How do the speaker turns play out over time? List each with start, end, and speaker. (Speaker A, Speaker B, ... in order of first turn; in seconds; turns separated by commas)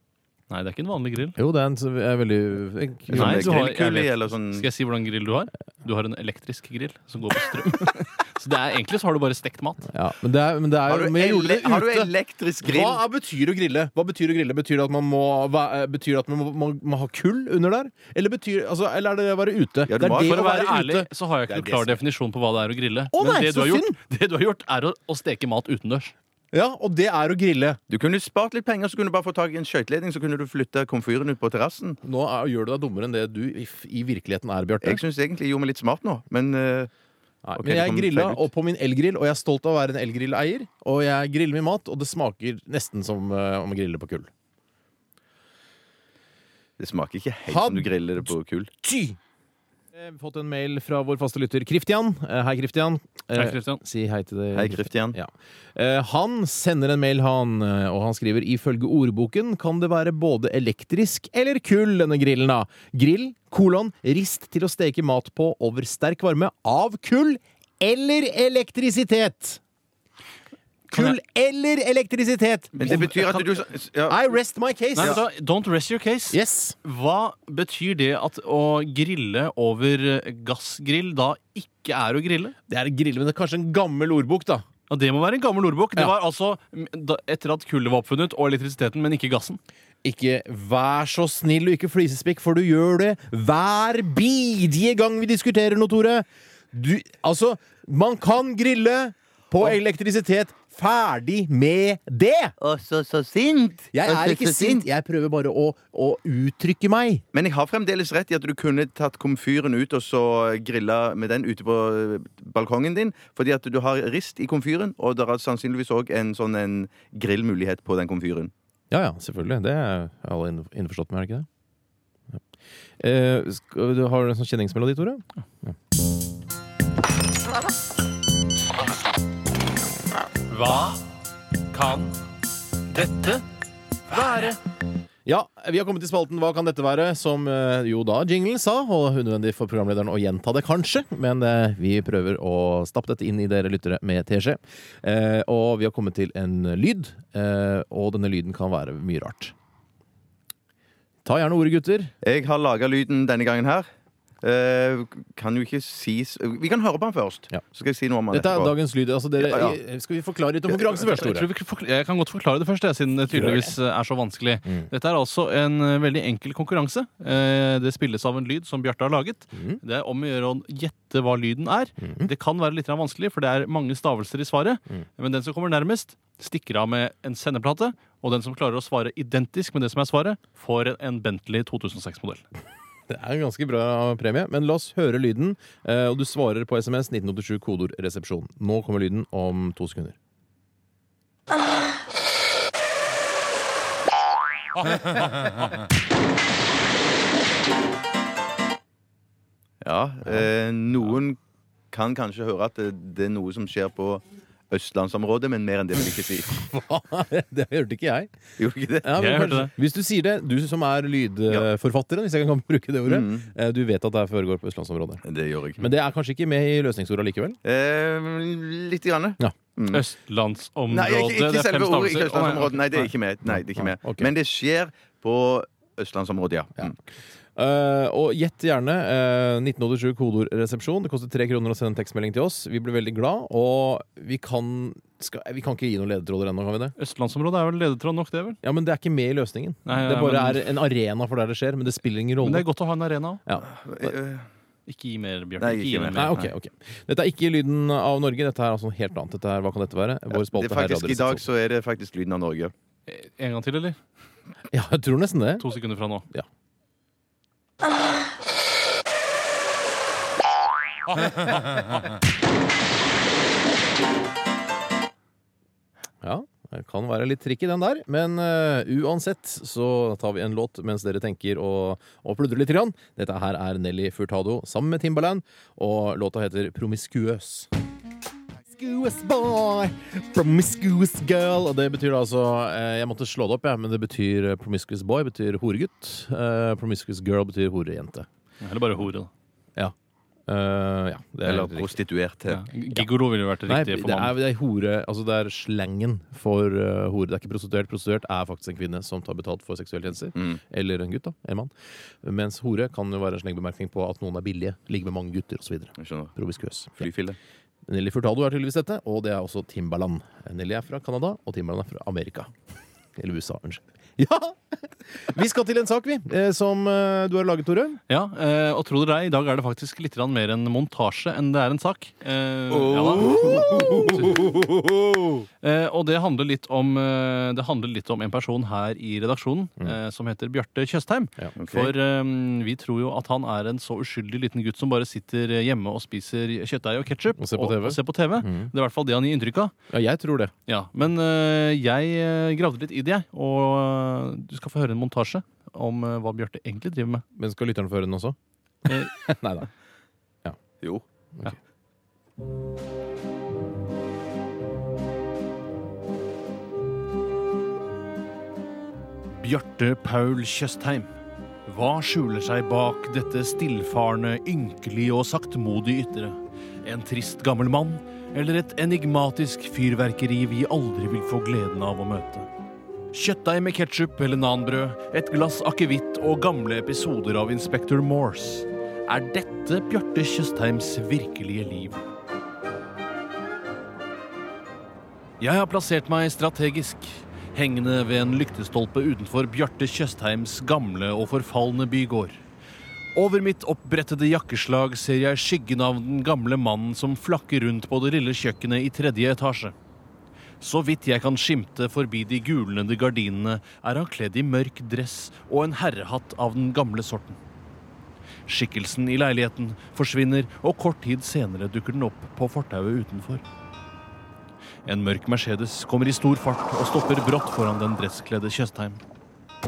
Speaker A: 0.5-1.4, Speaker B: 1.4-3.7, Speaker C: 3.1-4.7, Speaker A: 3.1-9.9, Speaker B: 9.9-12.1, Speaker C: 10.8-13.0, Speaker B: 12.6-22.0, Speaker C: 19.9-20.4, Speaker A: 20.1-26.1, Speaker B: 23.1-23.9, Speaker B: 26.5-27.8, Speaker C: 27.9-32.0, Speaker B: 32.0-35.0, Speaker C: 34.8-36.9, Speaker B: 37.4-44.3, Speaker C: 37.5-38.4, Speaker C: 46.8-48.7, Speaker B: 47.5-47.9, Speaker B: 48.8-49.2, Speaker B: 49.9-69.6, Speaker A: 53.3-53.8, Speaker C: 54.5-55.2, Speaker A: 70.9-71.2, Speaker B: 70.9-73.1, Speaker C: 72.8-74.3, Speaker A: 72.8-73.5, Speaker B: 74.1-75.2, Speaker A: 75.0-82.5, Speaker B: 76.3-76.8, Speaker B: 82.7-84.6, Speaker A: 84.9-89.6, Speaker B: 90.0-102.5, Speaker C: 102.6-104.8, Speaker B: 103.9-107.2, Speaker C: 107.3-118.5, Speaker B: 118.9-121.5, Speaker B: 123.0-125.7, Speaker A: 130.5-131.0, Speaker A: 131.7-132.2, Speaker A: 132.9-133.4, Speaker A: 134.1-134.6, Speaker B: 135.2-149.5, Speaker B: 151.2-152.1, Speaker C: 152.2-153.9, Speaker C: 154.4-158.7, Speaker B: 158.3-161.5, Speaker C: 159.4-159.8, Speaker A: 161.1-182.4, Speaker B: 163.3-163.7, Speaker B: 172.0-172.3, Speaker B: 183.1-190.2, Speaker C: 199.8-201.4, Speaker C: 201.9-206.6, Speaker B: 206.5-208.3, Speaker C: 208.6-209.1, Speaker B: 209.0-215.2, Speaker A: 209.2-209.7, Speaker C: 213.1-213.5, Speaker C: 215.2-215.8, Speaker B: 215.8-217.6, Speaker C: 217.6-220.0, Speaker A: 219.9-223.1, Speaker C: 220.9-227.0, Speaker B: 223.5-224.3, Speaker B: 227.6-236.9, Speaker A: 237.0-238.6, Speaker B: 238.6-242.7, Speaker A: 239.8-240.7, Speaker A: 242.4-243.4, Speaker B: 243.4-244.1, Speaker C: 243.7-244.4, Speaker A: 244.9-246.5, Speaker C: 245.6-246.5, Speaker B: 246.1-251.4, Speaker C: 250.3-252.7, Speaker A: 253.1-254.0, Speaker B: 254.7-255.7, Speaker A: 255.6-256.3, Speaker B: 266.2-277.7, Speaker B: 278.7-288.3, Speaker A: 288.6-289.3, Speaker B: 290.5-291.9, Speaker C: 291.4-292.6, Speaker A: 292.5-294.3, Speaker B: 293.6-307.1, Speaker C: 306.0-306.3, Speaker C: 307.0-307.4, Speaker B: 307.9-312.5, Speaker B: 313.1-318.0, Speaker A: 318.1-324.3, Speaker C: 322.7-324.8, Speaker B: 323.3-324.5, Speaker A: 325.6-339.7, Speaker C: 331.6-331.9, Speaker B: 337.4-338.7, Speaker B: 339.9-340.5, Speaker A: 340.7-347.2, Speaker B: 347.4-349.7, Speaker A: 359.3-361.1, Speaker A: 361.6-372.5, Speaker A: 373.1-382.0, Speaker A: 385.4-392.4, Speaker A: 393.1-399.7, Speaker A: 400.6-407.4, Speaker A: 408.5-413.4, Speaker A: 414.8-419.0